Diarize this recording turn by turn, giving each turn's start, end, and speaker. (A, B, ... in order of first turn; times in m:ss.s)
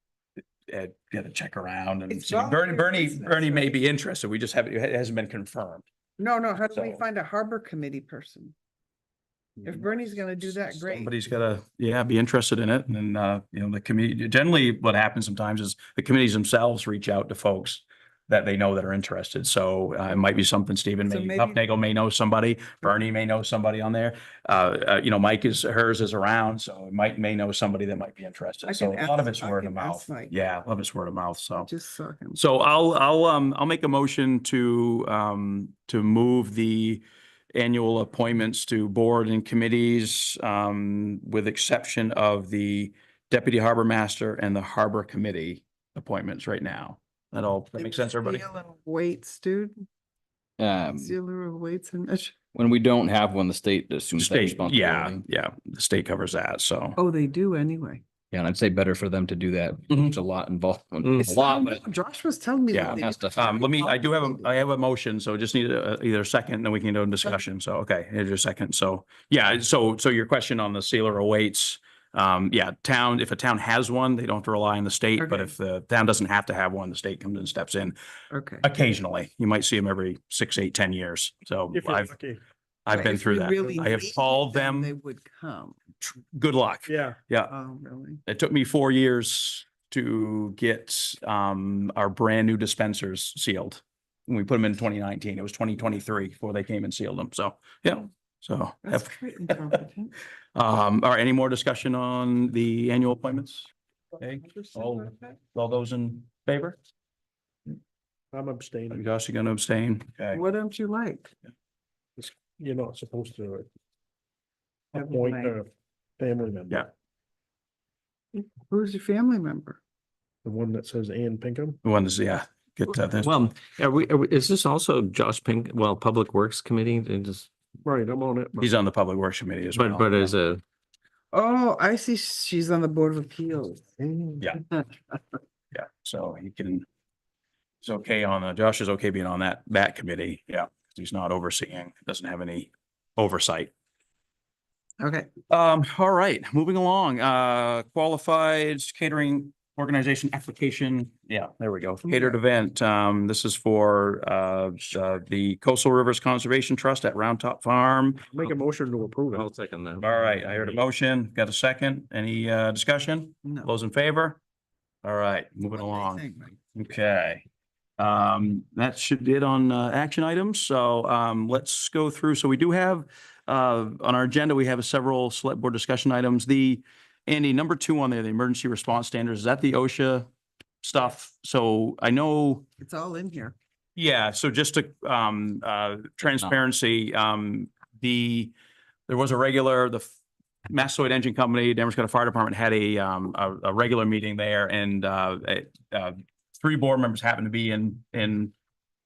0:00.7-0:05.8 A
0:02.1-0:03.8 B
0:06.2-0:08.5 B
0:06.7-0:07.0 A
0:09.6-0:31.7 A
0:09.6-0:11.1 B
0:21.0-0:21.6 B
0:28.6-0:30.3 B
0:31.6-0:32.4 B
0:32.3-0:37.0 A
0:37.5-0:48.4 A
0:47.8-0:49.8 B
0:50.6-0:51.2 C
0:50.9-0:52.3 B
0:52.5-0:55.2 C
0:54.2-0:57.0 A
0:57.0-0:58.0 B
0:58.3-1:01.8 C
1:01.2-1:04.5 B
1:02.7-1:18.0 A
1:02.8-1:03.6 C
1:15.2-1:15.5 B
1:18.3-1:18.6 B
1:18.6-1:22.1 A
1:21.7-1:22.4 D
1:22.8-1:24.9 A
1:22.9-1:25.8 B
1:26.0-1:27.5 A
1:26.8-1:27.2 D
1:27.5-1:28.2 B
1:28.2-1:39.8 A
1:38.8-1:40.1 B
1:40.5-1:46.8 A
1:44.4-1:45.3 B
1:48.3-1:49.0 D
1:48.9-1:50.4 A
1:50.3-1:51.3 B
1:52.2-1:53.7 D
1:54.9-1:55.5 B
1:55.0-1:56.8 D
1:58.3-1:59.8 B
2:00.4-2:01.8 D
2:01.8-2:03.3 A
2:03.2-2:07.5 E
2:07.8-2:08.7 D
2:08.6-2:10.3 A
2:09.7-2:10.6 E
2:11.3-2:15.2 B
2:15.7-2:16.8 A
2:17.8-2:23.7 A
2:25.0-2:25.3 B
2:25.5-2:38.3 A
2:32.1-2:32.4 B
2:38.3-2:39.5 D
2:39.3-2:40.8 E
2:40.0-2:44.4 A
2:45.0-2:47.4 A
2:45.7-2:46.6 B
2:48.0-3:00.3 A
3:00.8-3:02.6 A
3:02.8-3:03.5 B
3:04.0-3:08.5 A
3:09.1-3:10.1 A
3:10.7-3:18.5 A